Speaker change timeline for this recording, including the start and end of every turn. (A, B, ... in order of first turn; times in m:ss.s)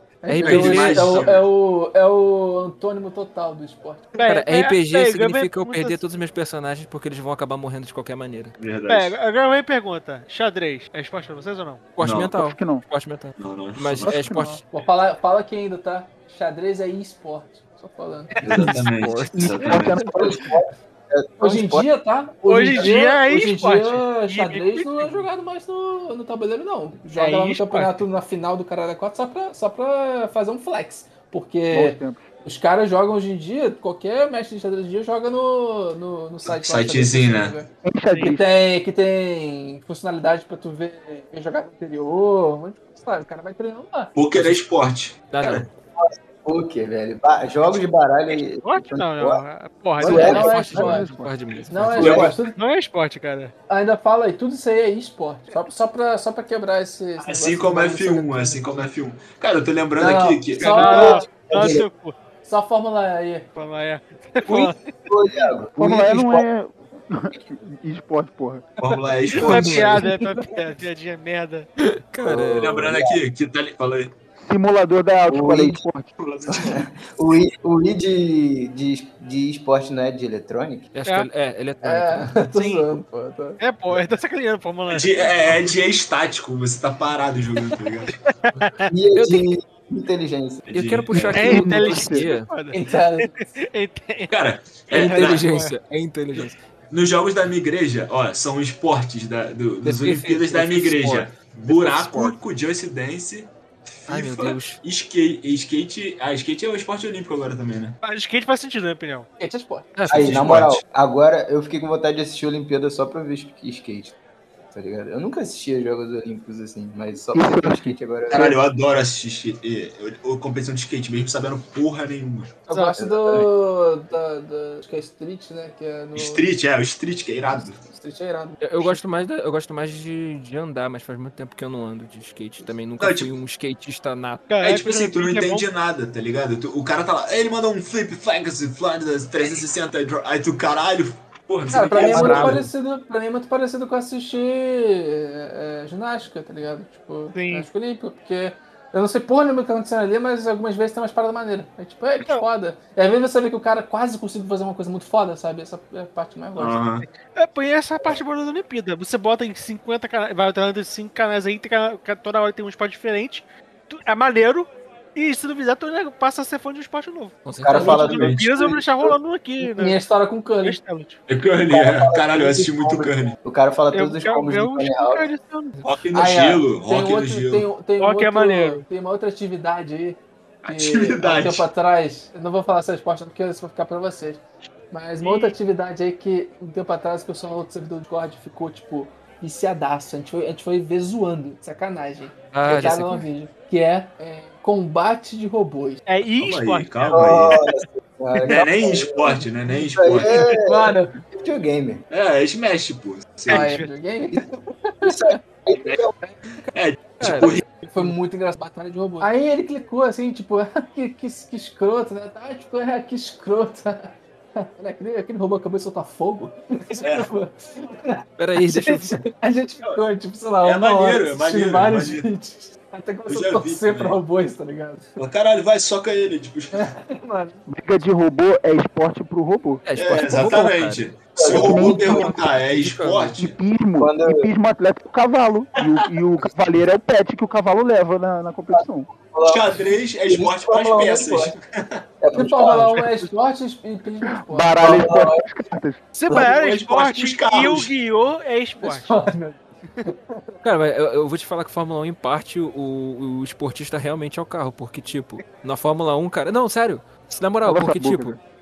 0:00.2-0:04.1 A
0:00.3-0:01.3 B
0:00.4-0:01.5 C
0:04.1-0:06.0 D
0:04.2-0:08.6 B
0:08.6-0:09.2 C
0:08.9-0:12.0 D
0:12.0-0:14.6 B
0:12.0-0:12.3 C
0:12.3-0:12.8 E
0:13.4-0:14.2 C
0:14.0-0:14.6 E
0:14.7-0:18.8 A
0:18.4-0:19.6 B
0:18.4-0:20.1 C
0:19.4-0:20.4 E
0:20.1-0:21.9 F
0:21.4-0:37.7 A
0:22.4-0:25.3 D
0:27.1-0:28.0 D
0:31.7-0:32.3 E
0:36.4-0:37.6 C
0:37.8-0:38.5 E
0:38.1-0:38.4 D
0:38.2-0:44.1 A
0:44.1-0:45.7 C
0:45.3-0:45.7 B
0:46.0-0:49.4 F
0:48.3-0:50.4 D
0:50.0-0:52.1 E
0:50.0-0:50.5 F
0:50.0-0:51.1 A
0:50.1-0:52.3 B
0:51.7-0:52.6 A
0:52.0-0:52.4 F
0:52.0-0:52.4 C
0:52.1-0:53.5 D
0:53.7-0:58.9 A
0:57.2-1:00.8 C
1:00.0-1:01.3 A
1:00.6-1:02.2 D
1:00.8-1:01.8 F
1:02.4-1:03.5 A
1:03.6-1:04.8 D
1:05.1-1:06.4 F
1:05.7-1:08.8 E
1:08.8-1:10.0 C
1:09.3-1:11.7 D
1:09.3-1:10.1 B
1:11.8-1:12.7 B
1:12.2-1:13.2 F
1:12.6-1:14.1 C
1:14.4-1:16.1 E
1:15.3-1:15.8 F
1:16.2-1:16.9 C
1:16.5-1:20.9 F
1:20.9-1:22.4 B
1:21.8-1:23.6 A
1:22.4-1:23.0 D
1:23.6-1:25.6 D
1:24.9-1:28.2 C
1:28.3-1:28.9 D
1:28.9-1:30.7 F
1:29.1-1:29.4 B
1:30.7-1:31.6 C
1:30.7-1:32.5 B
1:31.3-1:34.3 D
1:31.4-1:32.3 E
1:32.7-1:33.3 A
1:34.3-1:35.5 C
1:34.9-1:36.6 B
1:35.0-1:35.4 A
1:35.0-1:35.7 D
1:36.4-1:48.0 C
1:39.8-1:42.4 B
1:44.1-1:44.8 B
1:48.0-1:49.3 D
1:49.4-1:49.9 A
1:50.0-1:50.5 B
1:50.1-1:54.2 F
1:50.1-1:50.8 C
1:54.7-1:58.6 F
1:57.4-1:58.6 E
1:58.3-2:02.7 C
2:02.7-2:03.0 D
2:02.7-2:06.4 A
2:03.0-2:03.5 F
2:06.2-2:07.8 C
2:07.8-2:09.0 A
2:08.6-2:14.5 B
2:13.0-2:13.3 C
2:14.5-2:15.7 D
2:14.6-2:22.7 C
2:21.7-2:36.8 A
2:22.0-2:22.7 B
2:27.3-2:27.7 D
2:36.6-2:37.1 C
2:37.1-2:50.0 D
2:47.4-2:48.1 B
2:47.6-2:49.1 F
2:47.7-2:48.4 C
2:49.6-2:50.8 A
2:50.6-2:51.2 D
2:51.3-2:53.4 C
2:51.6-2:55.3 F
2:53.9-2:55.8 D
2:55.8-2:57.7 C
2:56.1-3:16.0 A
2:58.0-2:58.8 D
3:00.6-3:01.7 C
3:05.2-3:05.6 D
3:12.5-3:13.2 B
3:16.1-3:17.1 D
3:16.4-3:17.8 C
3:17.1-3:22.0 F
3:18.4-3:20.4 C
3:20.2-3:21.2 A
3:22.1-3:23.8 C
3:23.5-3:25.4 A
3:23.5-3:23.9 D
3:25.0-3:26.1 F
3:25.7-3:26.0 C
3:26.7-3:27.6 C
3:27.2-3:28.1 B
3:27.8-3:45.2 A
3:36.9-3:37.3 C
3:38.4-3:39.3 B
3:40.6-3:42.3 C
3:43.3-3:44.2 C
3:45.2-3:46.8 C
3:46.7-3:47.6 A
3:47.7-3:50.7 E
3:49.8-3:51.2 B
3:50.0-3:53.6 C
3:51.4-3:52.3 F
3:51.4-3:52.4 E
3:51.9-3:53.4 B
3:53.4-3:59.1 E
3:54.0-3:54.5 F
3:58.7-4:01.5 F
3:59.4-4:02.0 C
4:02.2-4:03.0 F
4:02.3-4:04.9 A
4:04.2-4:06.1 E
4:04.8-4:05.4 F
4:06.1-4:09.2 D
4:06.3-4:07.9 C
4:08.8-4:10.6 A
4:10.6-4:18.4 B
4:17.6-4:18.4 E